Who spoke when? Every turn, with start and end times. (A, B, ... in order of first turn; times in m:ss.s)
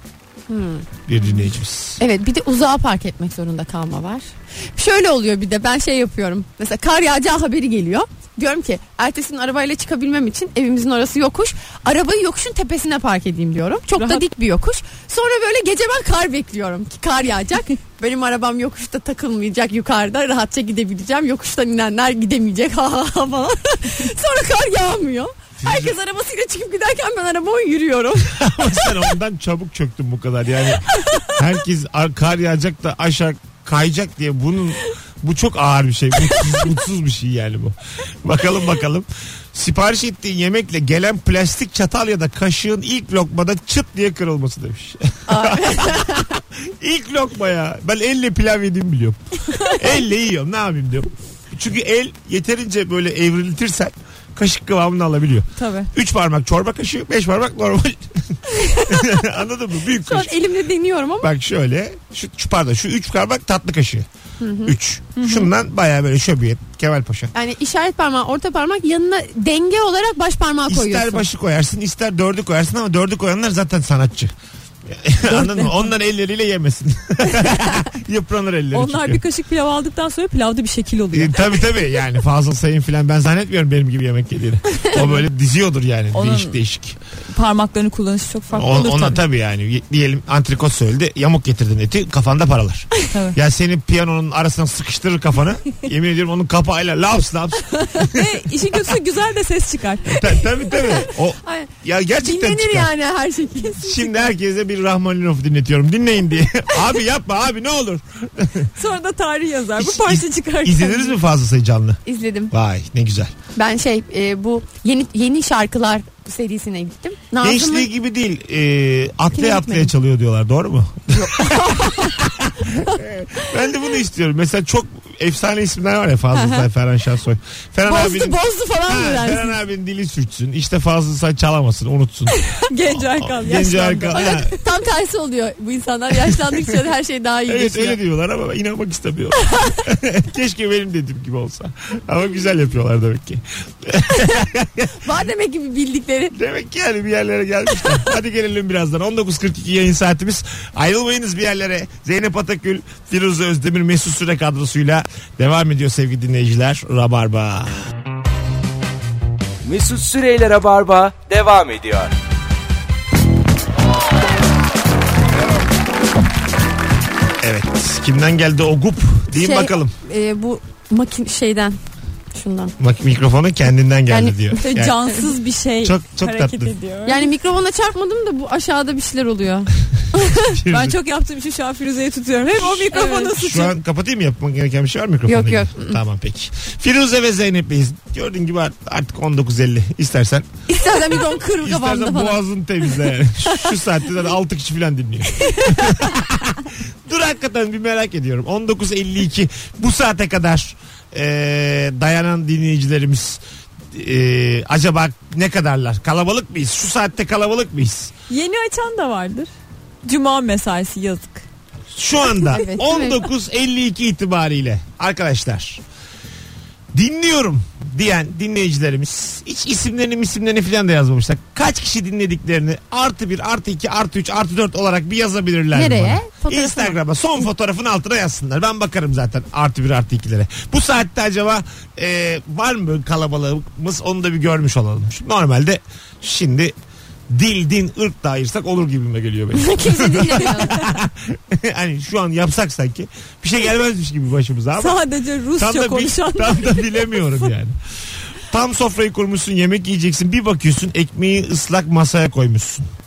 0:00.5-0:01.0 A
0:01.1-0:02.0 B
0:02.0-0:28.4 A
0:14.0-0:14.2 C
0:25.6-0:26.0 B
0:28.3-1:00.4 B
0:30.9-0:31.2 A
0:45.3-0:46.4 A
0:55.6-0:55.9 C
0:58.5-0:59.2 A
1:00.0-1:01.3 A
1:01.2-1:04.1 B
1:04.4-1:04.8 A
1:04.6-1:07.3 B
1:05.2-1:05.5 C
1:07.3-1:11.2 A
1:10.7-1:14.3 B
1:14.9-1:19.2 B
1:15.4-1:15.8 A
1:18.7-1:21.6 C
1:21.1-1:27.0 B
1:24.9-1:25.2 C
1:26.1-1:26.6 C
1:27.3-1:29.2 C
1:28.5-1:38.5 B
1:33.1-1:33.4 C
1:38.0-1:40.5 C
1:40.1-1:42.9 B
1:40.7-1:44.2 A
1:43.7-1:48.7 B
1:48.8-1:51.2 C
1:49.8-1:53.3 B
1:52.0-1:52.5 A
1:53.6-1:57.9 A
1:57.4-2:14.6 B
1:59.3-1:59.9 A
2:01.1-2:02.2 A
2:06.3-2:06.7 A
2:07.8-2:09.6 A
2:12.5-2:14.6 C
2:14.1-2:18.0 A
2:17.5-2:25.0 B
2:25.0-2:26.4 A
2:26.3-2:37.8 B
2:39.6-2:42.1 D
2:47.4-2:49.9 B
2:49.3-2:51.8 A
2:52.3-2:52.7 A
2:52.8-2:55.0 B
2:54.1-2:55.2 A
2:54.6-2:57.3 C
2:55.8-2:56.7 B
2:57.1-3:00.4 A
3:00.2-3:01.0 B
3:00.7-3:03.7 C
3:02.7-3:03.4 A
3:03.4-3:10.5 B
3:05.3-3:06.0 A
3:10.7-3:12.4 A
3:11.6-3:23.4 B
3:15.6-3:16.0 A
3:23.9-3:28.1 B
3:28.3-3:29.5 C
3:30.1-3:31.4 C
3:31.9-3:35.8 B
3:32.3-3:33.2 A
3:36.9-3:56.7 B
3:45.7-3:47.0 A
3:57.3-4:05.0 B
3:59.5-4:00.9 A
4:04.8-4:07.2 C
4:05.6-4:07.8 B
4:08.4-4:12.9 B